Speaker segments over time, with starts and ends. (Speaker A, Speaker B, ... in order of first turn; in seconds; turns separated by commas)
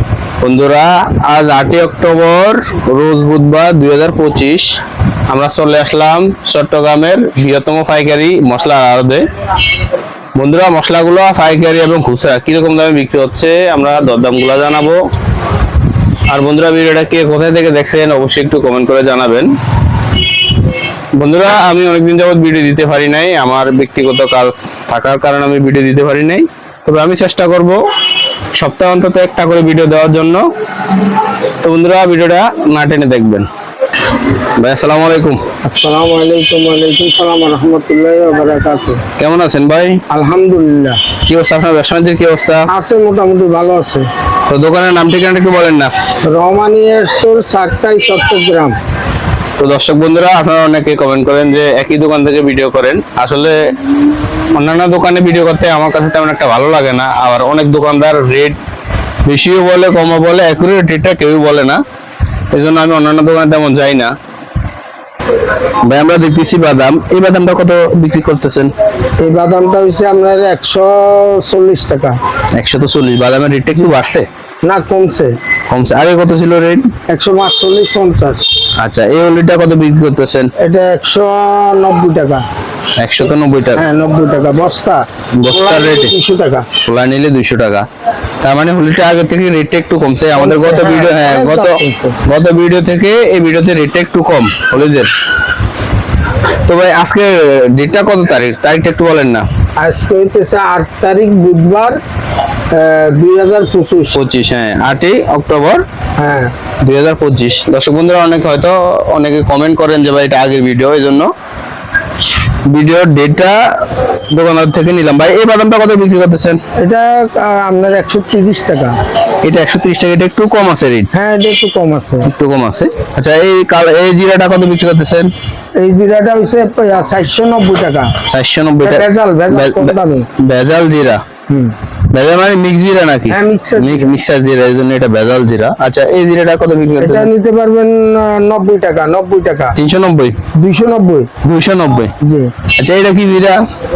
Speaker A: 0.4-9.2, Speaker A: 10.3-15.0, Speaker A: 16.3-19.5, Speaker A: 21.2-27.8, Speaker A: 28.6-30.4, Speaker A: 31.6-33.5, Speaker A: 34.2-35.4, Speaker B: 35.6-39.0, Speaker A: 39.2-40.0, Speaker B: 40.1-41.0, Speaker A: 41.3-42.7, Speaker B: 42.7-44.1, Speaker A: 44.5-45.9, Speaker B: 46.3-48.7, Speaker A: 49.6-53.6, Speaker A: 54.5-58.6, Speaker A: 59.2-61.8, Speaker A: 62.5-64.1, Speaker A: 65.8-68.7, Speaker B: 69.2-72.2, Speaker A: 72.5-74.3, Speaker B: 74.6-75.4, Speaker A: 75.7-76.9, Speaker B: 77.1-78.5, Speaker A: 78.8-80.5, Speaker B: 80.6-82.4, Speaker A: 83.0-83.8, Speaker B: 83.8-86.7, Speaker A: 85.3-86.1, Speaker A: 86.8-87.8, Speaker A: 88.4-95.1, Speaker B: 90.3-92.2, Speaker A: 96.6-99.5, Speaker B: 99.8-102.0, Speaker B: 102.7-104.2, Speaker A: 104.1-105.8, Speaker B: 106.2-106.5, Speaker A: 106.8-111.3, Speaker A: 112.7-116.6, Speaker B: 116.8-119.0, Speaker A: 119.4-121.1, Speaker B: 121.1-122.3, Speaker A: 122.2-125.3, Speaker B: 125.8-128.1, Speaker A: 128.3-131.2, Speaker B: 128.8-130.3, Speaker B: 131.5-131.7, Speaker A: 132.1-137.3, Speaker B: 133.3-134.1, Speaker B: 137.0-139.7, Speaker A: 139.8-140.4, Speaker B: 140.6-141.3, Speaker A: 141.4-142.1, Speaker B: 142.2-142.5, Speaker A: 142.8-143.6